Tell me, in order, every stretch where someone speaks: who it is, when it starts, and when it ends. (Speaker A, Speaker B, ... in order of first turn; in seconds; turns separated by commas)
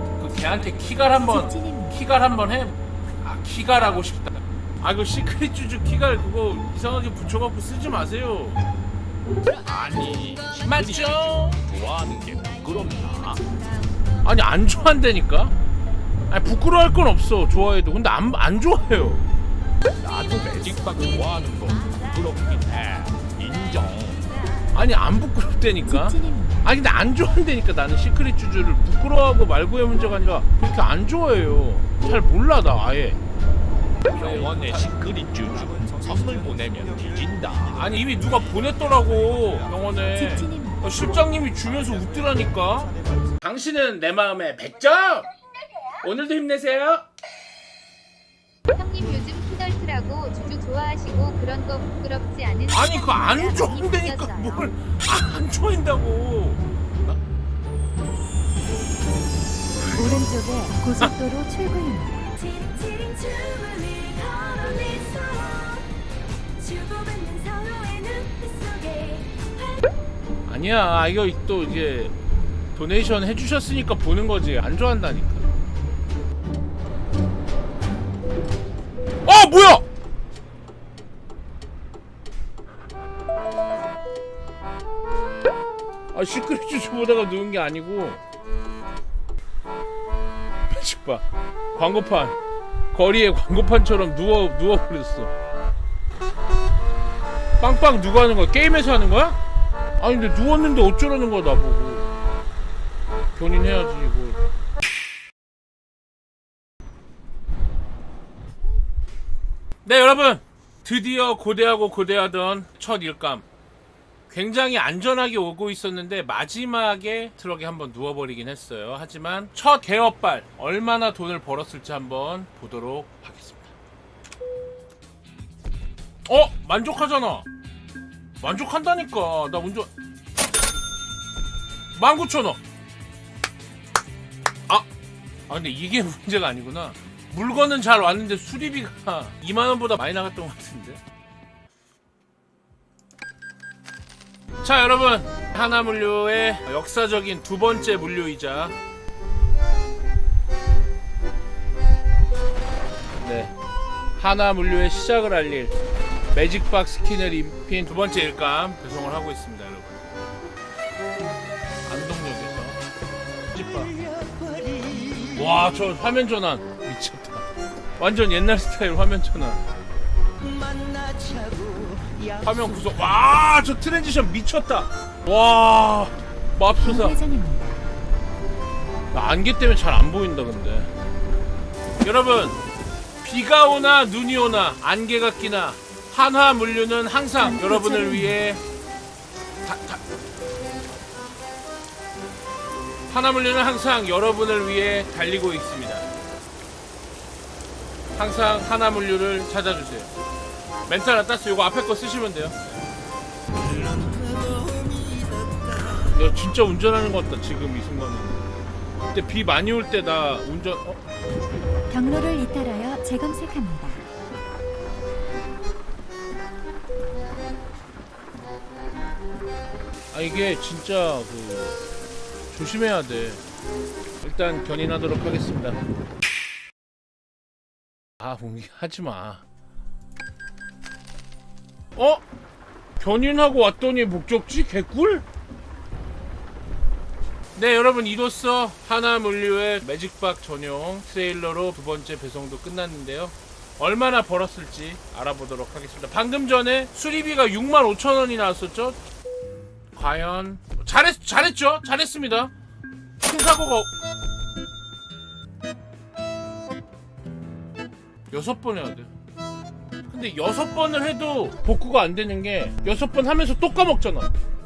Speaker A: 0.2-8.6, Speaker B: 1.2-1.9, Speaker C: 9.5-13.5, Speaker A: 10.5-11.7, Speaker A: 14.2-15.6, Speaker A: 16.3-19.2, Speaker C: 20.0-24.3, Speaker A: 24.7-33.2, Speaker B: 25.8-26.6, Speaker C: 34.1-37.8, Speaker A: 34.1-34.7, Speaker A: 37.7-45.3, Speaker B: 40.1-40.8, Speaker A: 46.0-47.0, Speaker D: 48.7-54.7, Speaker A: 52.7-56.6, Speaker B: 59.9-62.9, Speaker E: 62.5-65.9, Speaker E: 66.6-69.5, Speaker A: 70.5-72.1, Speaker A: 72.7-75.5, Speaker A: 79.2-79.8, Speaker A: 86.1-88.2, Speaker A: 90.7-92.4, Speaker A: 92.9-95.3, Speaker A: 97.6-99.4, Speaker A: 100.0-102.1, Speaker A: 103.3-104.4, Speaker A: 109.8-113.5, Speaker A: 114.3-123.7, Speaker A: 126.2-127.5, Speaker A: 128.4-129.9, Speaker A: 131.9-132.6, Speaker A: 135.5-141.0, Speaker A: 144.6-148.8, Speaker A: 153.2-153.5, Speaker A: 154.2-155.7, Speaker A: 156.3-160.2, Speaker A: 161.8-162.8, Speaker A: 163.5-163.9, Speaker A: 165.1-167.4, Speaker A: 168.0-169.6, Speaker E: 171.4-171.9, Speaker A: 172.3-177.2, Speaker B: 176.8-177.8, Speaker A: 179.1-180.9, Speaker A: 182.0-182.6, Speaker A: 183.2-188.6, Speaker B: 187.4-188.3, Speaker A: 189.6-190.0, Speaker A: 193.1-196.1, Speaker A: 198.2-200.1, Speaker A: 200.8-202.6, Speaker A: 206.0-208.5, Speaker A: 209.1-211.0, Speaker B: 211.9-214.1, Speaker A: 220.1-221.8, Speaker A: 222.5-223.4, Speaker A: 224.2-225.8, Speaker A: 228.2-229.4, Speaker A: 231.9-232.2, Speaker A: 233.0-235.2, Speaker A: 237.5-249.0, Speaker A: 249.9-252.5, Speaker A: 253.2-253.9, Speaker A: 258.3-259.1, Speaker A: 260.1-264.3